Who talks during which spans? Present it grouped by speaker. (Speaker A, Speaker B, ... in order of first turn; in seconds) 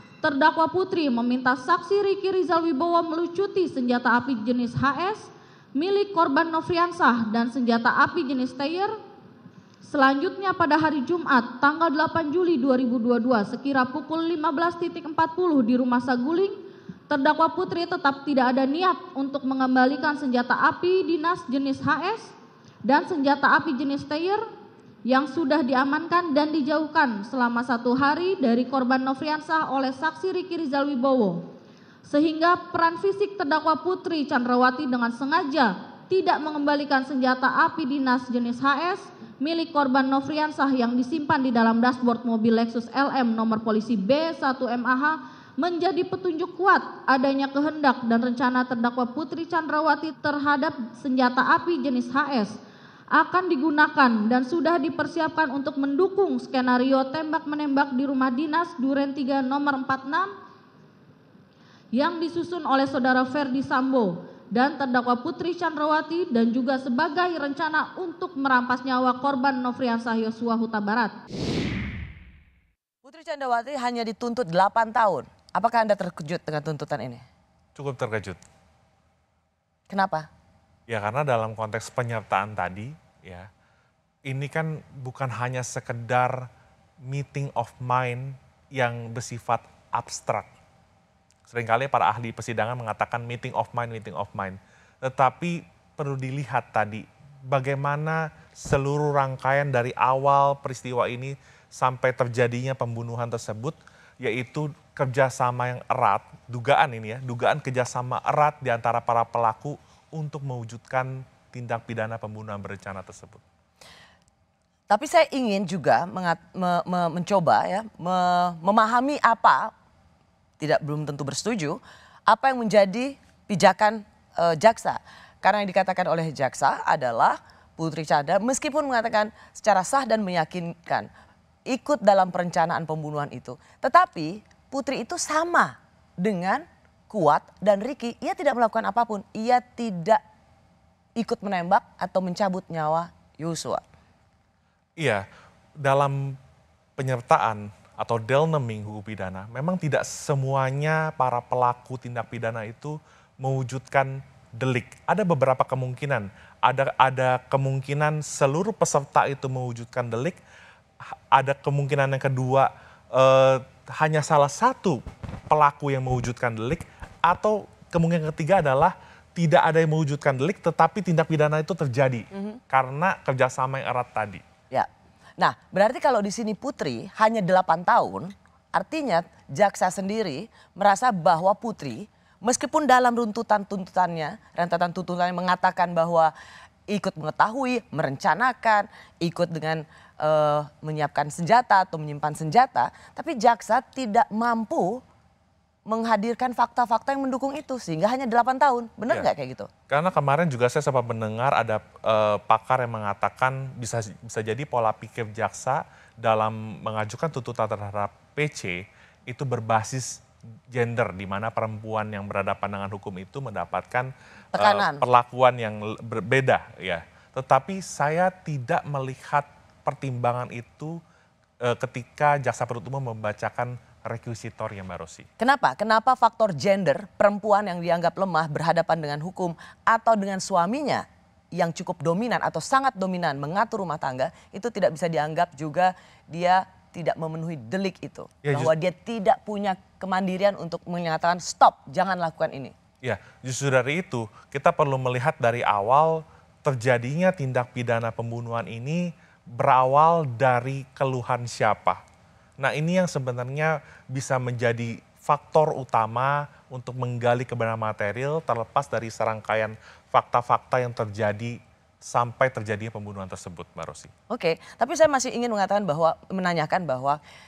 Speaker A: 0.2-8.9, 9.8-22.3, 22.8-24.4, 25.1-31.5, 32.1-52.6, 53.1-60.3, 61.9-71.2
Speaker B: 73.0-77.2, 79.9-80.3, 114.9-119.7, 120.6-131.1, 131.7-140.2, 141.2-143.8, 172.3-172.6, 175.4-186.3, 186.9-195.0, 195.9-199.7, 214.5-215.0, 225.4-242.7, 264.3-267.2
Speaker C: 77.8-78.4, 80.9-83.5, 84.3-86.5, 87.0-90.5, 91.5-113.4, 145.0-145.2, 145.8-146.4, 147.0-160.4, 161.1-174.4, 199.9-221.0, 221.6-225.3, 238.4-238.7, 243.0-252.0, 252.6-264.1